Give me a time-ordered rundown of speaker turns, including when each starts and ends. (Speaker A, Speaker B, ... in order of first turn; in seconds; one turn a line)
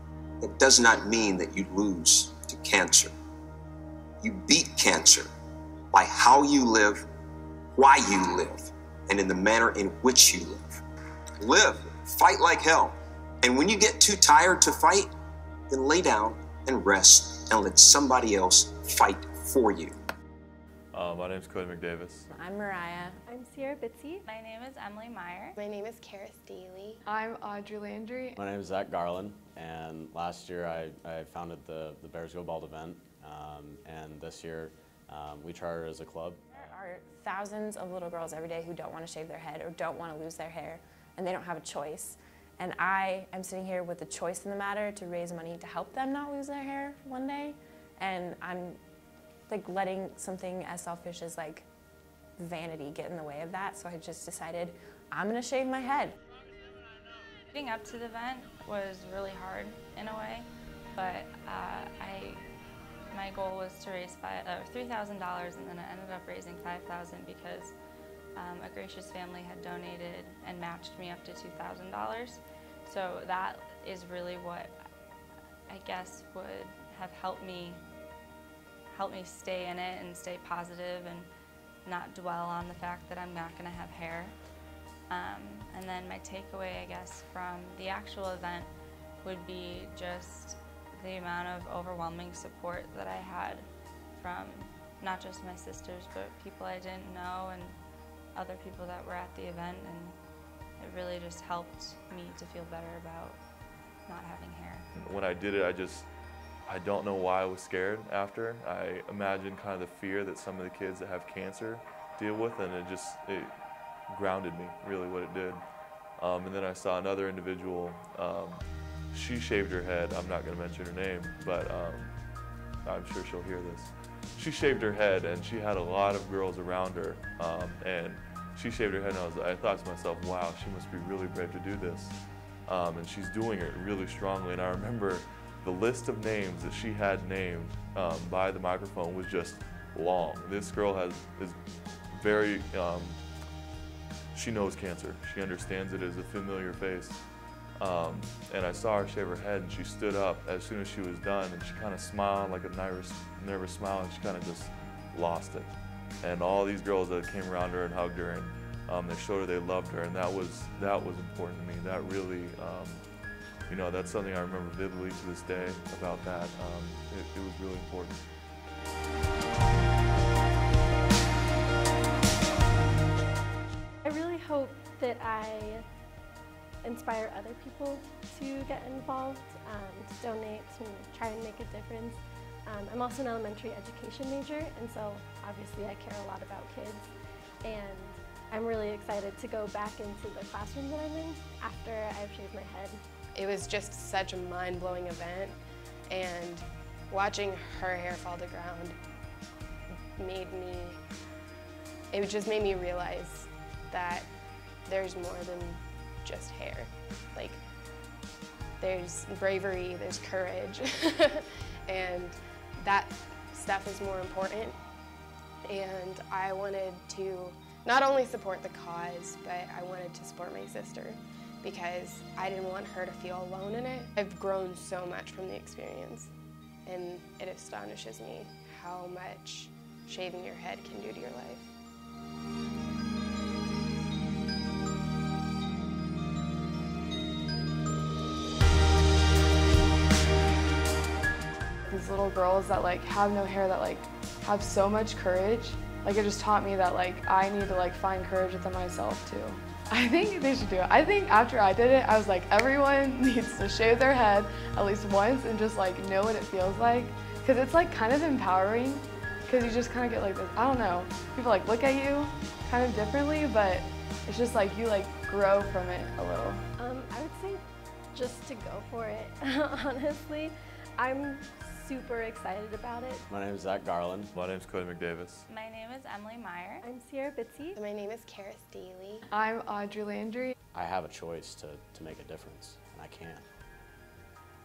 Speaker A: 0.4-3.1
Speaker A: 4.2-5.3
Speaker A: 5.9-7.0
Speaker A: 7.7-10.8
Speaker A: 11.4-15.1
Speaker A: 15.7-19.9
Speaker B: 20.9-22.3
Speaker C: 22.3-23.2
Speaker D: 23.3-24.2
Speaker E: 24.2-25.6
Speaker F: 25.6-27.0
Speaker G: 27.1-28.4
Speaker H: 28.4-36.4
Speaker C: 36.5-48.8
Speaker C: 49.5-51.7
Speaker C: 52.4-56.1
Speaker E: 57.5-62.4
Speaker E: 63.1-67.8
Speaker E: 68.4-74.8
Speaker E: 75.7-77.8
Speaker E: 78.9-81.3
Speaker E: 81.8-84.4
Speaker E: 85.1-88.7
Speaker E: 89.2-97.8
Speaker E: 98.3-100.2
Speaker E: 100.8-103.4
Speaker E: 104.1-104.9
Speaker B: 104.9-106.1
Speaker B: 106.7-113.5
Speaker B: 114.1-115.6
Speaker B: 116.2-122.1
Speaker B: 122.8-141.6
Speaker B: 142.1-143.2
Speaker B: 144.3-147.2
Speaker B: 147.8-163.0
Speaker B: 163.7-168.2
Speaker D: 174.0-175.8
Speaker D: 176.8-187.1
Speaker D: 187.6-193.0
Speaker F: 193.3-198.9
Speaker F: 200.2-201.0
Speaker F: 202.1-204.3
Speaker F: 204.8-207.6
Speaker F: 208.8-214.8
Speaker F: 215.7-226.3
Speaker F: 226.8-231.7
Speaker G: 241.9-266.6
Speaker D: 266.8-267.6
Speaker D: 268.1-273.2
Speaker H: 273.3-274.3
Speaker B: 274.3-275.5
Speaker E: 275.5-276.9
Speaker D: 276.8-277.8
Speaker F: 277.8-279.2
Speaker G: 279.3-280.5
Speaker H: 280.7-283.5